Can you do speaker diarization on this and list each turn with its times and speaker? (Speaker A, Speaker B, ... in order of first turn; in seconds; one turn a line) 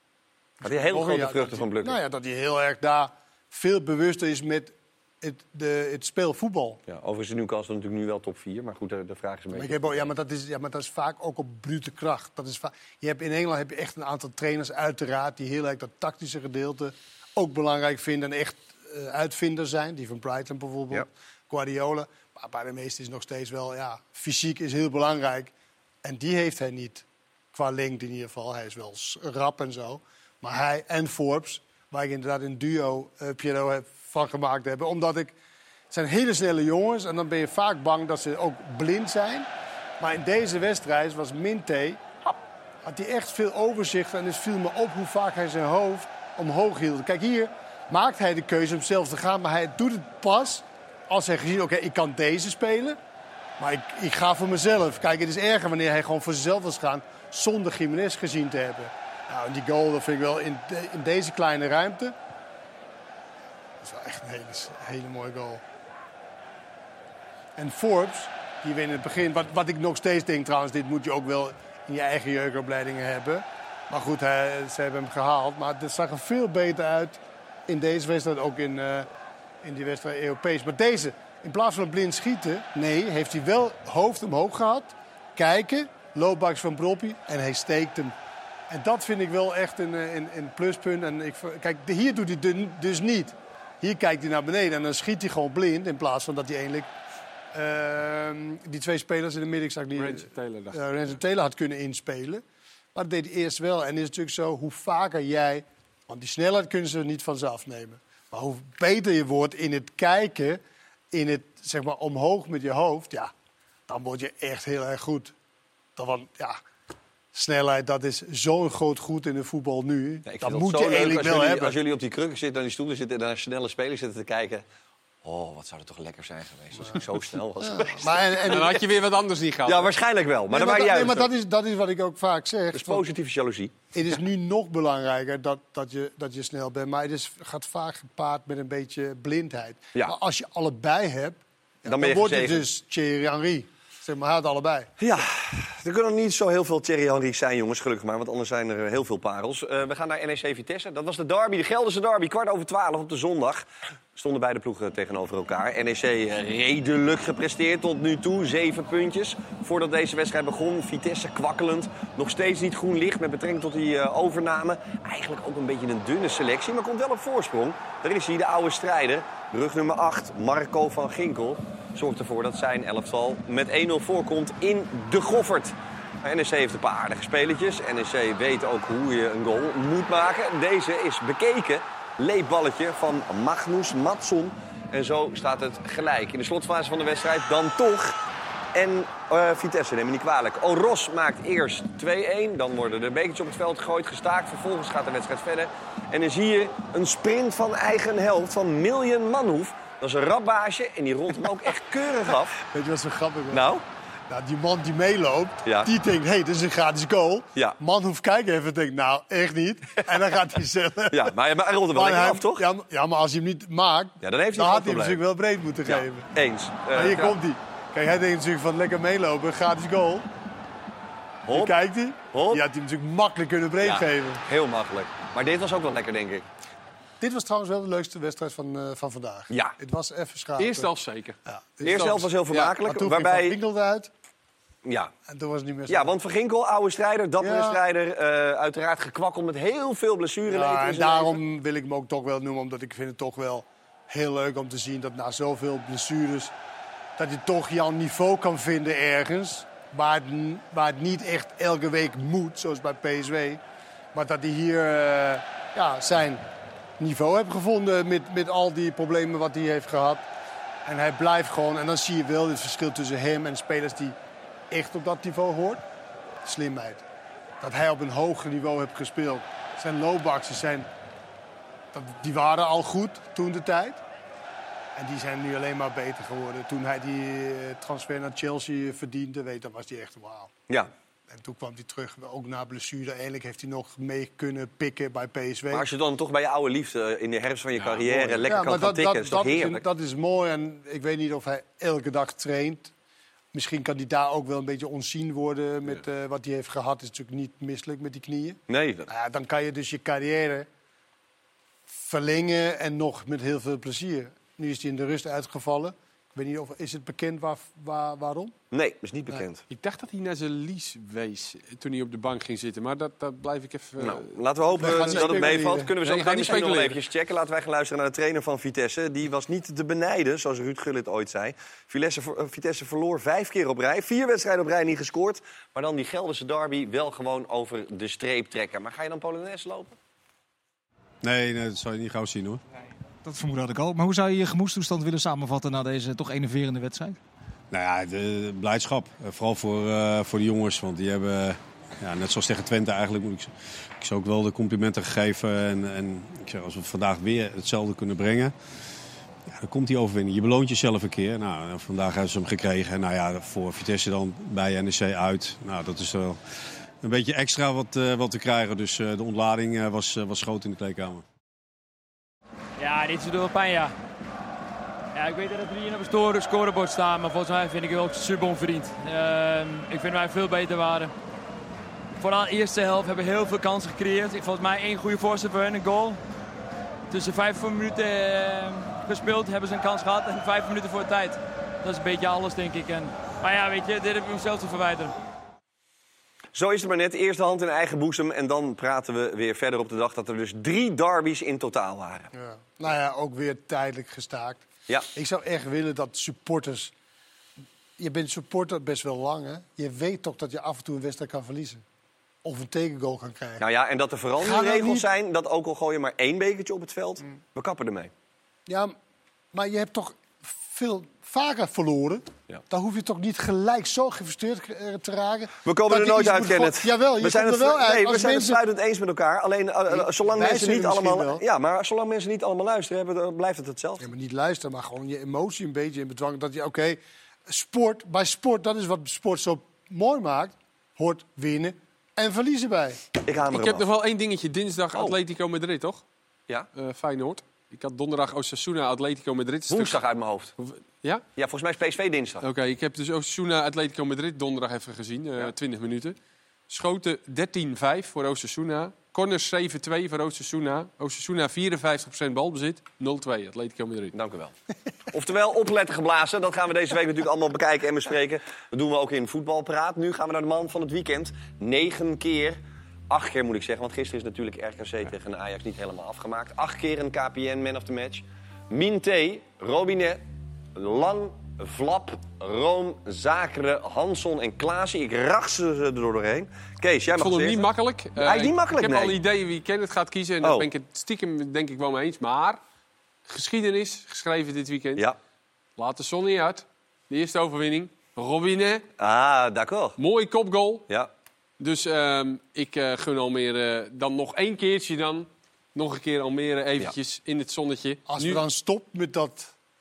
Speaker A: 0.6-6.8
Speaker B: 0.6-2.0
Speaker B: 6.9-10.1
Speaker A: 9.5-25.5
Speaker A: 26.0-35.3
Speaker A: 35.9-39.5
Speaker A: 40.0-42.1
Speaker A: 42.8-53.0
Speaker A: 53.6-62.1
Speaker A: 63.8-65.6
Speaker A: 67.6-79.1
Speaker A: 79.6-88.1
Speaker A: 88.7-96.9
Speaker A: 97.5-102.4
Speaker C: 100.0-101.1
Speaker A: 102.9-110.6
Speaker A: 111.1-113.3
Speaker A: 113.9-115.3
Speaker A: 116.0-116.6
Speaker A: 117.3-121.8
Speaker B: 120.2-124.6
Speaker B: 125.2-128.6
Speaker A: 127.6-128.8
Speaker C: 128.5-129.9
Speaker B: 129.7-131.3
Speaker A: 130.5-133.1
Speaker B: 132.7-133.7
Speaker A: 133.9-144.9
Speaker B: 141.8-142.7
Speaker B: 145.0-188.2
Speaker B: 188.7-202.6
Speaker A: 202.7-203.7
Speaker B: 203.5-203.8
Speaker A: 204.3-211.3
Speaker B: 211.1-212.6
Speaker A: 211.9-216.3
Speaker B: 214.2-215.2
Speaker B: 215.8-217.3
Speaker A: 216.9-220.2
Speaker B: 221.5-221.7
Speaker A: 221.5-224.4
Speaker B: 222.3-222.6
Speaker B: 223.8-226.4
Speaker A: 227.2-230.9
Speaker C: 230.6-232.7
Speaker A: 231.5-232.3
Speaker B: 231.8-233.6
Speaker A: 232.8-234.1
Speaker B: 234.8-235.1
Speaker A: 235.3-236.1
Speaker B: 235.9-241.4
Speaker A: 237.4-237.8
Speaker A: 240.5-246.5
Speaker A: 247.2-253.6
Speaker A: 254.1-256.4
Speaker A: 257.0-260.2
Speaker A: 260.8-264.1
Speaker A: 264.7-265.8
Speaker A: 266.4-267.0
Speaker A: 267.6-270.9
Speaker A: 271.9-274.0
Speaker A: 274.9-280.5
Speaker A: 281.3-285.9
Speaker B: 285.7-289.8
Speaker C: 287.8-288.4
Speaker A: 288.4-292.9
Speaker A: 293.5-300.7
Speaker B: 298.7-299.1
Speaker A: 301.9-308.5
Speaker B: 308.7-309.6
Speaker C: 309.7-317.0
Speaker B: 314.0-329.9
Speaker A: 314.8-315.9
Speaker D: 331.2-332.6
Speaker E: 333.2-337.2
Speaker D: 337.7-348.5
Speaker D: 349.5-356.4
Speaker D: 357.0-361.2
Speaker F: 362.8-363.9
Speaker F: 365.1-371.1
Speaker F: 372.1-376.2
Speaker F: 377.1-385.1
Speaker B: 386.5-392.3
Speaker A: 392.3-396.9
Speaker A: 398.0-401.8
Speaker A: 402.4-403.6
Speaker B: 403.6-408.1
Speaker A: 404.4-405.1
Speaker A: 408.7-408.9
Speaker A: 409.5-418.6
Speaker B: 415.6-424.0
Speaker A: 419.9-421.4
Speaker A: 424.0-433.0
Speaker B: 433.2-433.9
Speaker C: 433.5-436.0
Speaker C: 436.7-440.0
Speaker B: 439.7-440.5
Speaker C: 440.6-441.2
Speaker B: 441.4-442.4
Speaker C: 442.4-446.1
Speaker C: 446.7-454.1
Speaker B: 454.1-454.5
Speaker B: 455.1-462.6
Speaker B: 463.1-470.2
Speaker B: 470.8-477.6
Speaker C: 477.1-482.6
Speaker B: 478.2-479.1
Speaker C: 483.3-485.0
Speaker C: 485.8-488.8
Speaker B: 489.0-489.9
Speaker C: 490.0-490.9
Speaker C: 491.6-498.4
Speaker A: 498.1-499.5